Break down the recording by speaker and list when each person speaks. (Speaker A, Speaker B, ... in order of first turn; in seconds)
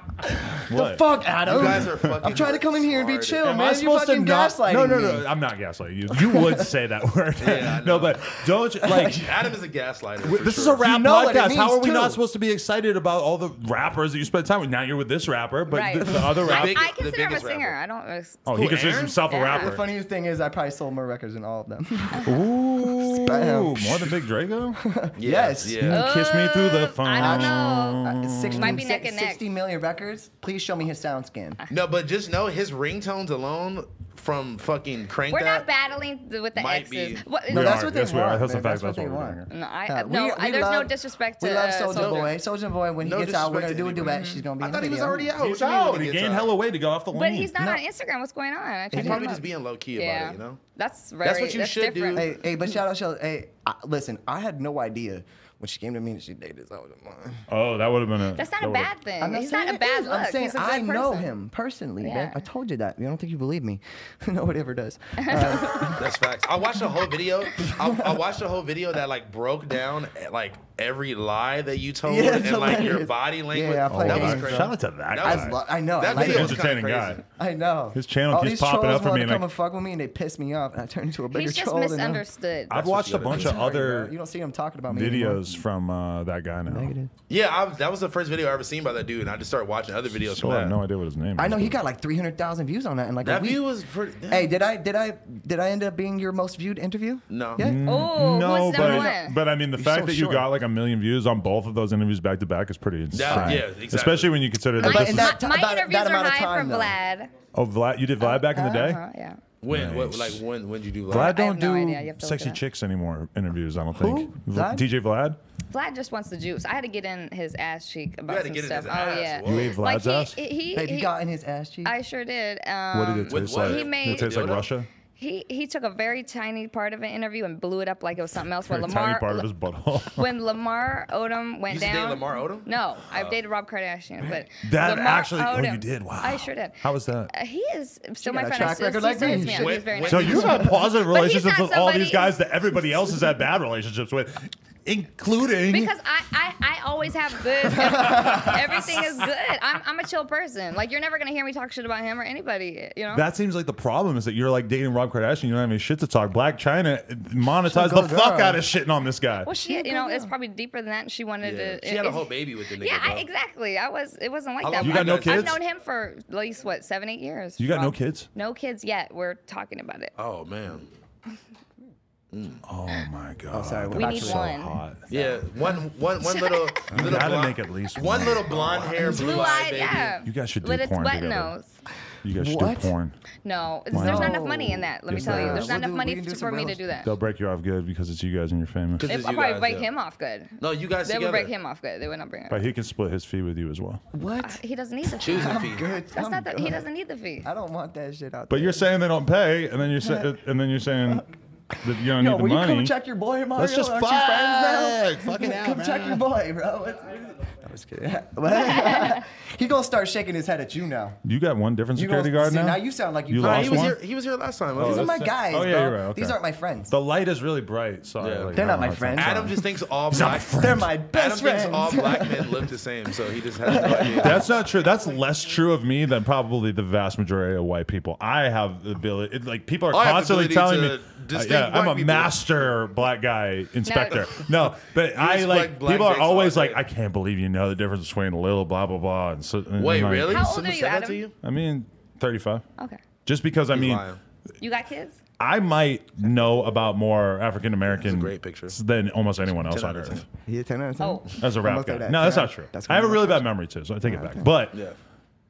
Speaker A: 0.2-5.3, 6.1-6.7, 8.7-9.5, 10.8-12.2, 19.5-24.2, 24.8-26.0, 27.2-31.6, 37.5-45.3, 47.5-47.8, 48.9-49.3, 52.1-57.5, 59.2-66.1, 67.6-68.2, 72.0-76.7, 77.3-82.2, 83.3-85.5, 86.7-87.1, 91.3-93.6, 94.3-97.8, 98.7-99.1, 99.8-100.5, 103.3-103.6, 104.8-106.9, 113.9-114.9, 120.7-121.9, 138.2-140.9, 147.7-148.6, 157.6-158.6, 159.6-160.3, 173.5-174.5, 176.9-177.3, 179.0-179.3, 182.3-182.9, 183.9-186.8, 194.1-196.8, 197.4-198.8, 200.0-200.3, 202.1-211.2, 211.9-214.0, 214.8-216.9, 218.5-219.5, 220.5-222.7, 223.6-224.4, 250.4-253.5, 254.0-254.5
Speaker B: 0.7-1.0, 1.7-2.1, 3.4-9.3, 10.2-16.8, 18.4-19.8, 22.2-24.8, 25.8-28.8, 37.5-39.5, 45.4-47.5, 57.5-58.9, 73.9-77.2, 77.9-79.5, 82.7-84.1, 84.9-86.9, 90.2-91.8, 97.6-105.4, 107.5-109.0, 109.7-110.4, 111.1-115.4, 119.4-120.4, 122.9-124.9, 128.7-130.3, 134.6-137.3, 140.1-145.9, 153.1-159.5, 164.8-165.6, 167.6-168.3, 172.7-175.1, 176.9-179.2, 180.2-181.5, 182.2-183.1, 183.9-184.4, 185.1-185.8, 187.0-189.1, 192.5-194.0, 198.5-201.3, 201.8-202.9, 203.6-206.2, 211.2-214.0, 214.8-216.4, 216.9-219.6, 220.1-220.9, 224.1-240.5, 241.4-242.6, 243.2-244.1, 245.4-250.2, 251.4-254.8
Speaker C: 1.4-3.5, 7.4-8.2, 9.0-10.8, 16.4-17.8, 18.5-19.2, 25.2-26.1, 31.7-35.7, 36.5-37.2, 41.9-42.3, 43.0-46.6, 48.9-50.6, 51.2-52.3, 65.8-77.2, 82.7-83.7, 87.3-90.8, 93.2-94.5, 97.3-97.6, 103.1-104.4, 109.6-111.4, 118.3-119.8, 123.2-124.7, 131.7-133.4, 139.2-140.7, 161.4-163.3, 164.6-165.6, 170.2-170.9, 172.3-172.6, 175.1-180.2, 189.0-189.9, 190.6-191.5, 195.2-195.9, 213.4-215.2, 218.2-224.5, 229.9-232.5, 234.7-236.8, 239.8-241.3, 243.7-244.2, 247.9-248.8, 249.5-250.2
Speaker D: 15.7-18.4, 19.3-19.7, 25.9-29.4, 35.3-37.9, 39.5-42.3, 44.0-44.4, 47.1-52.3, 58.3-61.3, 62.0-62.4, 65.2-66.0, 81.3-82.8, 97.8-99.4, 104.8-107.3, 108.2-109.4, 111.1-112.6, 115.7-121.1, 121.8-124.6, 125.2-129.5, 130.1-142.4, 145.7-153.2, 159.4-170.1, 173.9-174.8, 176.2-176.9, 179.0-181.7, 183.4-187.1, 189.1-192.6, 194.4-197.5, 208.5-209.2, 233.8-234.3, 240.2-241.2, 244.6-245.2, 251.0-251.2